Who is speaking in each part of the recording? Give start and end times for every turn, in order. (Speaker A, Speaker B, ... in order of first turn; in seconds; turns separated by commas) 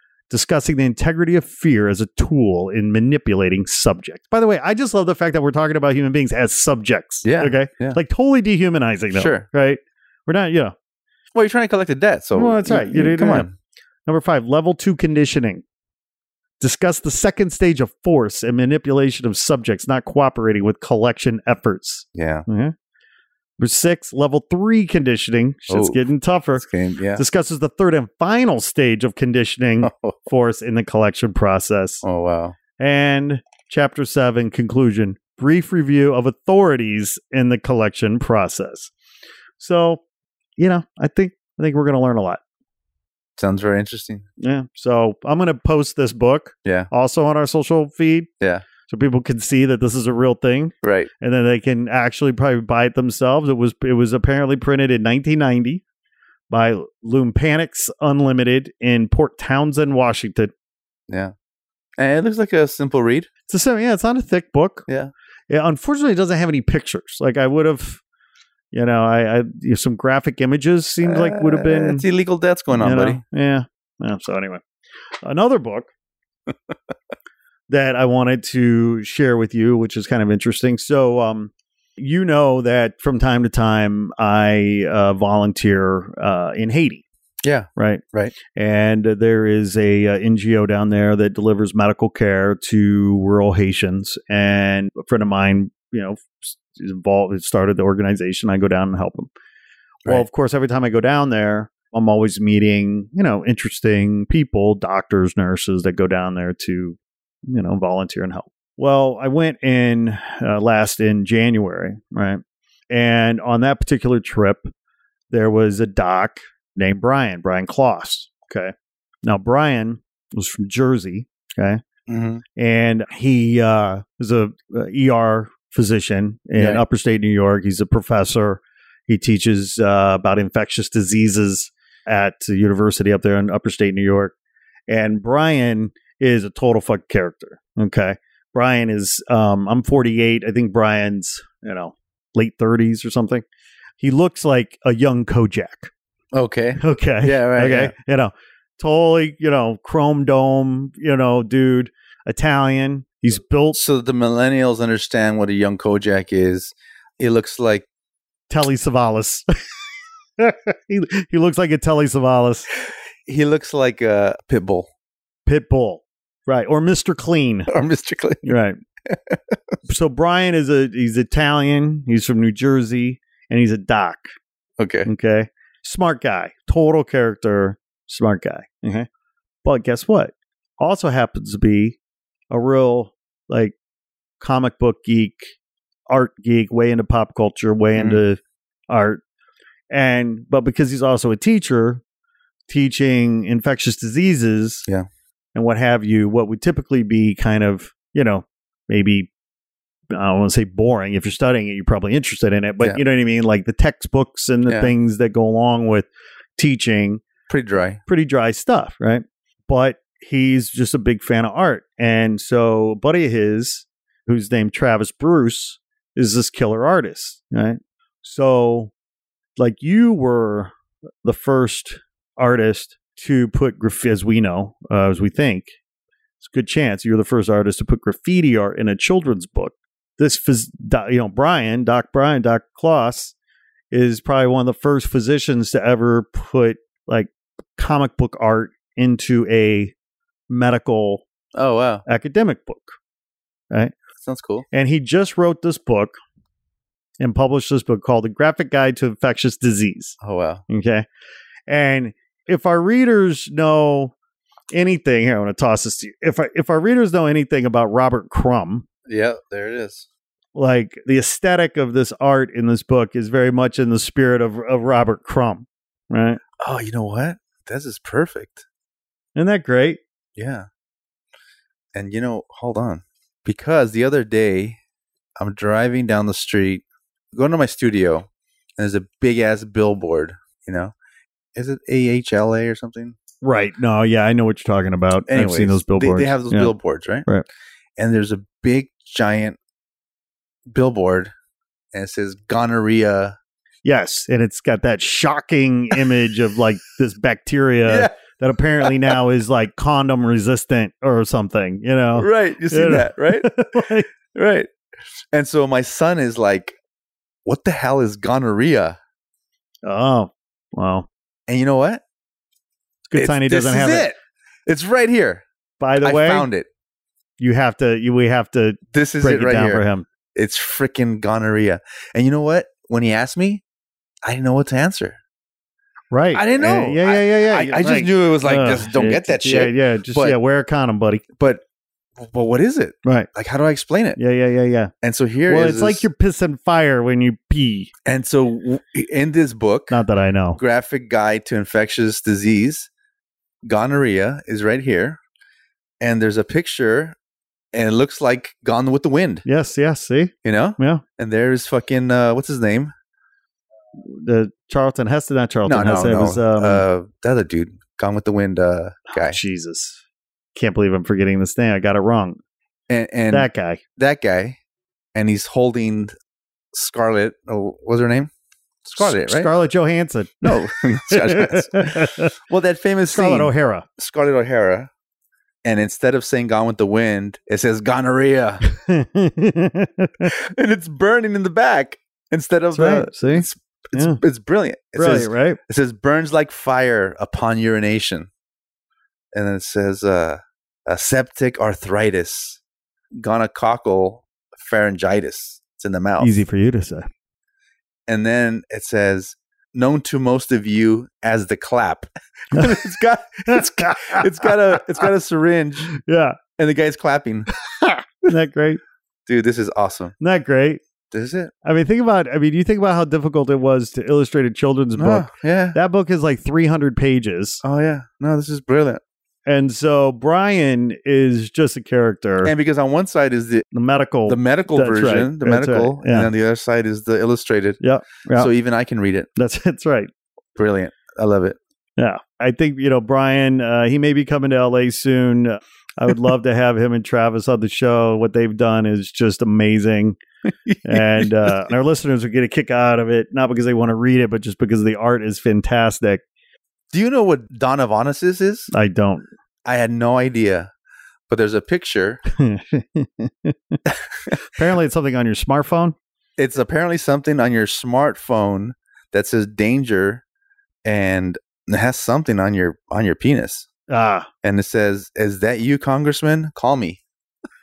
Speaker A: 0.3-10.8, Speaker B: 7.2-8.0, Speaker B: 9.1-9.5, Speaker B: 11.3-13.5, Speaker A: 12.3-13.5, Speaker A: 14.1-15.6, Speaker A: 16.6-22.7, Speaker B: 22.1-22.4, Speaker A: 23.6-26.6, Speaker B: 25.7-26.0, Speaker B: 26.6-27.2, Speaker A: 27.2-32.0, Speaker B: 29.8-30.3, Speaker B: 32.0-32.6, Speaker A: 32.8-38.9, Speaker A: 39.6-40.0, Speaker A: 40.6-42.4, Speaker B: 43.4-44.2, Speaker A: 44.4-48.3, Speaker B: 46.6-46.9, Speaker A: 48.9-55.8, Speaker B: 50.8-51.1, Speaker A: 56.5-60.5, Speaker B: 62.0-63.3, Speaker A: 63.5-64.8, Speaker A: 65.5-68.0, Speaker A: 68.7-72.0, Speaker B: 71.0-73.2, Speaker A: 72.7-74.6, Speaker A: 75.2-75.9, Speaker A: 77.7-87.0, Speaker B: 87.4-88.3, Speaker A: 87.8-99.3, Speaker A: 100.0-107.0, Speaker A: 107.5-114.7, Speaker A: 115.3-121.8, Speaker B: 122.1-122.4, Speaker A: 122.6-134.3, Speaker A: 134.9-143.4, Speaker A: 144.0-145.9, Speaker B: 146.3-147.9, Speaker A: 146.8-153.8, Speaker B: 153.8-157.8, Speaker A: 158.5-159.5, Speaker A: 160.4-162.7, Speaker B: 163.3-164.9, Speaker A: 165.5-167.7, Speaker B: 167.7-168.6, Speaker A: 168.4-168.8, Speaker B: 169.1-169.5, Speaker A: 169.9-174.3, Speaker B: 174.8-175.1, Speaker A: 175.1-179.1, Speaker A: 179.6-182.0, Speaker A: 182.5-183.8, Speaker A: 184.4-185.5, Speaker A: 186.1-189.2, Speaker B: 187.9-188.2, Speaker A: 189.9-192.0, Speaker A: 192.7-194.8, Speaker A: 195.6-199.3, Speaker A: 200.1-207.2, Speaker B: 204.7-204.9, Speaker B: 207.5-208.0, Speaker A: 208.1-218.9, Speaker A: 219.6-220.7, Speaker A: 221.2-225.8, Speaker A: 226.4-233.3, Speaker A: 233.9-239.9, Speaker A: 240.5-241.2, Speaker B: 241.6-242.0, Speaker A: 242.1-243.0, Speaker B: 244.2-244.7, Speaker A: 244.7-246.2, Speaker A: 247.2-250.2, Speaker B: 250.2-250.6, Speaker A: 250.7-251.1, Speaker A: 251.7-254.1, Speaker A: 254.7-258.9, Speaker B: 259.1-260.1, Speaker A: 260.6-266.4, Speaker B: 266.6-268.6, Speaker A: 269.4-270.0, Speaker B: 270.4-270.7, Speaker B: 271.9-274.8, Speaker B: 275.4-278.3, Speaker B: 278.8-280.9, Speaker B: 281.6-283.2, Speaker A: 283.4-286.7, Speaker B: 285.3-287.3, Speaker B: 288.0-289.6, Speaker B: 290.7-291.3, Speaker B: 291.9-293.4, Speaker A: 293.9-304.1, Speaker B: 297.9-298.1, Speaker B: 302.2-303.8, Speaker B: 304.3-304.7, Speaker B: 305.3-306.8, Speaker B: 307.5-309.0, Speaker A: 309.9-311.1, Speaker B: 311.5-312.0, Speaker A: 313.1-314.1, Speaker B: 313.1-314.1, Speaker B: 314.7-315.4, Speaker A: 315.8-316.5, Speaker B: 316.0-316.7, Speaker A: 317.4-320.1, Speaker B: 318.9-323.6, Speaker B: 324.2-325.2, Speaker A: 326.1-331.2, Speaker B: 326.3-330.4, Speaker B: 332.2-334.2, Speaker A: 334.2-334.9, Speaker B: 335.0-336.0, Speaker A: 335.5-337.9, Speaker B: 338.1-340.0, Speaker A: 339.9-340.6, Speaker B: 340.6-342.9, Speaker B: 343.7-345.2, Speaker B: 346.0-347.2, Speaker B: 347.7-349.4, Speaker A: 349.4-351.0, Speaker B: 350.4-352.9, Speaker A: 354.0-356.8, Speaker B: 355.7-359.4, Speaker A: 359.1-360.0, Speaker A: 360.6-362.4, Speaker B: 362.9-364.6, Speaker A: 363.3-363.8, Speaker B: 365.1-366.1, Speaker B: 366.7-368.3, Speaker B: 368.8-369.5, Speaker A: 369.0-372.3, Speaker B: 370.4-374.9, Speaker A: 373.1-373.9, Speaker B: 375.6-378.6, Speaker A: 378.7-380.3, Speaker B: 380.2-388.3, Speaker A: 382.7-384.2, Speaker A: 385.0-385.6, Speaker B: 389.3-392.6, Speaker B: 393.1-396.4, Speaker A: 396.2-397.1, Speaker B: 398.1-405.9, Speaker A: 402.5-402.9, Speaker A: 403.5-404.5, Speaker A: 405.9-406.4, Speaker B: 406.6-407.5, Speaker A: 407.6-408.8, Speaker B: 409.3-410.1, Speaker A: 410.2-410.8, Speaker B: 411.1-411.5, Speaker A: 411.6-417.6, Speaker B: 415.0-415.8, Speaker B: 417.6-419.0, Speaker A: 419.5-422.5, Speaker B: 422.4-423.6, Speaker A: 423.7-426.3, Speaker B: 424.3-427.8, Speaker A: 427.8-428.5, Speaker B: 428.3-429.3, Speaker A: 429.4-430.1, Speaker B: 430.6-431.6, Speaker A: 432.0-440.2, Speaker B: 440.7-441.5, Speaker A: 440.9-446.2, Speaker B: 446.9-448.7, Speaker A: 448.7-449.3, Speaker B: 449.6-450.7, Speaker B: 451.3-452.2, Speaker A: 452.3-453.8, Speaker A: 454.4-455.9, Speaker B: 456.4-460.2, Speaker B: 460.8-463.7, Speaker A: 463.9-464.3, Speaker B: 464.4-467.0